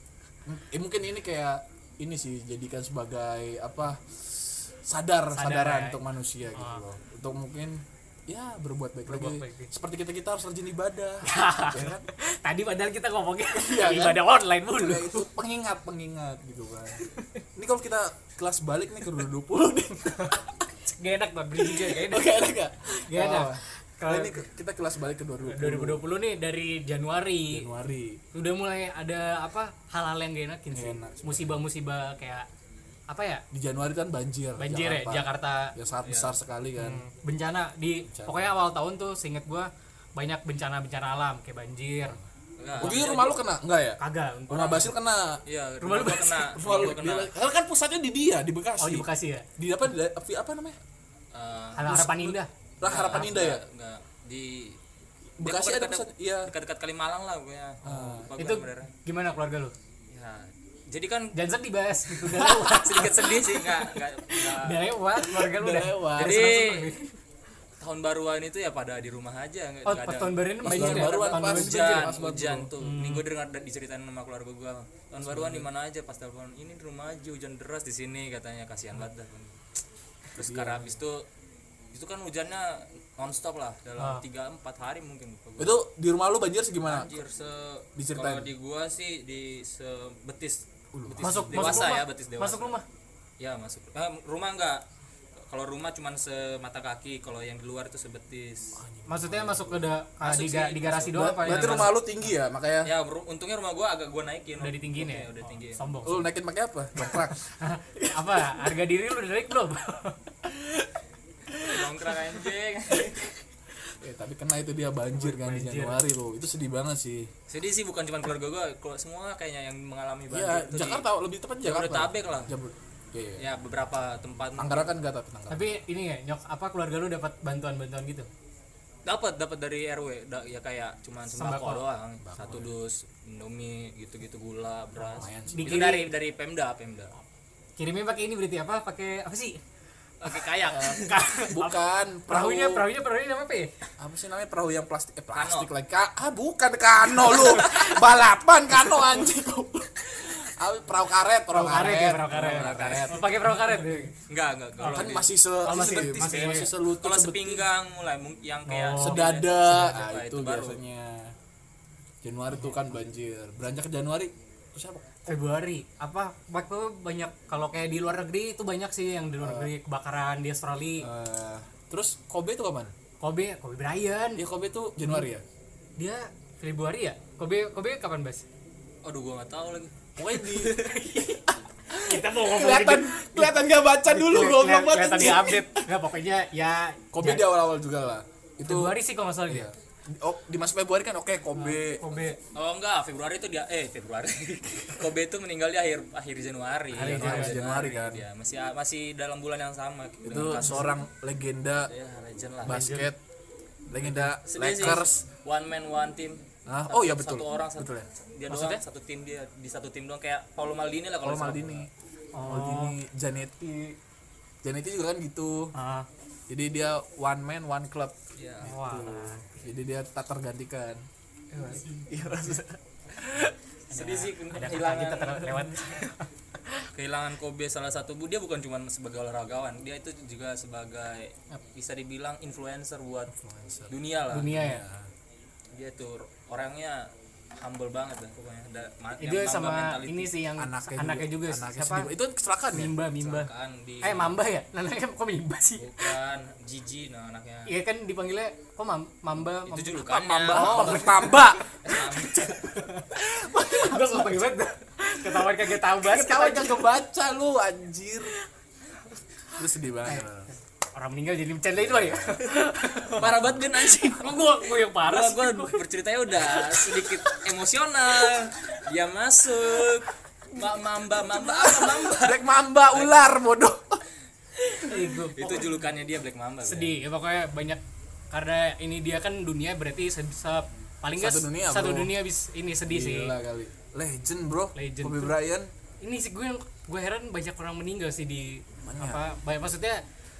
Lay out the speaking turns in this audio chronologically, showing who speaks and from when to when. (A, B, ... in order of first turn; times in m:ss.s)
0:00.4-0:12.1 A
0:05.3-0:06.0 B
0:06.5-0:06.8 B
0:09.0-0:09.7 B
0:11.2-0:15.2 B
0:13.5-0:20.4 A
0:20.0-0:22.4 B
0:21.6-0:26.0 A
0:22.9-0:24.4 B
0:25.4-0:27.7 B
0:27.5-0:28.2 A
0:28.3-0:32.5 B
0:30.7-0:31.6 A
0:33.1-0:33.4 B
0:33.5-0:37.0 A
0:34.6-0:35.7 B
0:36.0-0:36.4 C
0:36.8-0:42.2 B
0:38.1-0:38.5 A
0:42.6-0:43.4 C
0:42.8-0:45.4 A
0:44.0-0:44.9 B
0:45.4-0:47.3 C
0:45.8-0:46.5 B
0:46.5-0:49.1 A
0:48.8-0:49.4 B
0:49.6-0:50.8 A
0:51.3-0:51.9 C
0:51.7-0:53.3 B
0:51.8-0:53.6 A
0:52.8-0:54.8 C
0:55.4-0:56.5 A
0:55.4-0:58.9 C
0:57.8-0:58.3 A
0:58.4-0:59.7 B
1:00.1-1:01.3 C
1:01.3-1:07.1 B
1:02.5-1:02.8 A
1:02.7-1:04.8 C
1:05.2-1:06.5 A
1:06.2-1:06.9 C
1:07.8-1:19.6 C
1:09.8-1:12.1 B
1:10.6-1:12.7 A
1:12.8-1:13.2 B
1:15.2-1:15.7 A
1:20.3-1:21.3 C
1:20.4-1:21.0 A
1:21.9-1:25.8 C
1:25.6-1:27.1 A
1:26.8-1:32.8 C
1:28.0-1:28.5 A
1:30.9-1:32.0 A
1:31.2-1:32.8 B
1:33.4-1:34.8 C
1:35.4-1:38.8 C
1:38.8-1:39.9 A
1:39.1-1:42.0 B
1:40.2-1:41.8 C
1:41.1-1:42.9 A
1:42.8-1:45.8 C
1:44.6-1:46.3 B
1:46.0-1:47.4 A
1:47.0-1:50.2 B
1:48.0-1:48.7 A
1:50.5-1:50.9 A
1:51.6-1:53.3 C
1:54.0-1:57.3 A
1:55.2-1:56.0 B
1:57.5-2:01.0 C
2:00.3-2:03.4 A
2:01.6-2:02.5 C
2:03.4-2:04.9 C
2:04.6-2:05.8 A
2:05.5-2:08.3 B
2:09.0-2:17.1 C
2:11.3-2:11.8 B
2:12.2-2:12.7 A
2:15.0-2:15.8 A
2:15.5-2:16.1 B
2:17.8-2:19.6 B
2:20.2-2:21.4 C
2:20.7-2:22.9 A
2:20.9-2:23.7 B
2:24.0-2:33.7 A
2:25.3-2:25.7 C
2:27.2-2:28.0 B
2:31.5-2:34.1 B
2:32.2-2:33.3 C
2:34.3-2:40.8 C
2:34.8-2:35.1 B
2:34.9-2:37.6 A
2:35.6-2:36.7 B
2:38.7-2:40.0 B
2:39.0-2:41.3 A
2:42.2-2:45.2 A
2:45.3-2:51.1 B
2:49.4-2:49.7 A
2:51.0-2:52.9 A
2:53.2-2:54.4 B
2:54.4-2:55.4 A
2:56.0-2:58.4 B
2:59.0-2:59.9 C
3:00.2-3:00.8 A
3:00.4-3:07.5 B
3:00.5-3:00.9 C
3:01.5-3:05.9 A
3:07.1-3:12.0 A
3:08.6-3:09.7 B
3:11.5-3:12.4 B
3:12.5-3:20.9 C
3:16.9-3:17.6 B
3:16.9-3:18.2 A
3:20.2-3:21.9 A
3:20.6-3:20.8 B
3:21.9-3:22.9 C
3:22.6-3:23.2 A
3:22.7-3:23.1 B
3:23.9-3:25.2 A
3:24.2-3:31.8 C
3:26.6-3:28.1 A
3:28.5-3:28.8 B
3:31.2-3:31.9 A
3:32.3-3:33.0 B
3:32.4-3:34.0 A
3:34.6-3:35.7 A
3:35.7-3:36.1 B
3:36.5-3:41.0 A
3:38.4-3:38.7 C
3:38.6-3:39.4 B
3:41.6-3:43.5 A
3:43.9-3:46.8 B
3:43.9-3:45.6 C
3:46.9-3:53.3 C
3:53.3-3:55.1 A
3:53.9-3:54.5 C
3:54.3-3:54.8 B
3:55.7-4:00.3 C
3:59.2-4:02.1 B
4:00.6-4:02.9 A
4:02.7-4:03.5 B
4:03.2-4:04.4 C
4:04.0-4:06.1 B
4:05.8-4:07.7 C
4:07.7-4:16.8 B
4:09.7-4:12.6 C
4:10.1-4:12.6 A
4:13.1-4:14.5 A
4:15.3-4:18.3 A
4:19.6-4:20.5 A
4:20.0-4:23.3 B
4:21.8-4:22.4 A
4:23.2-4:24.4 C
4:23.2-4:23.6 A
4:23.8-4:25.8 B
4:24.9-4:33.1 C
4:26.4-4:27.4 B
4:31.4-4:34.0 A
4:34.7-4:35.7 B
4:35.3-4:37.0 C
4:36.6-4:43.3 B
4:41.2-4:42.1 A
4:42.9-4:45.7 A
4:44.7-4:45.3 B
4:46.0-4:50.0 B
4:48.8-4:49.2 A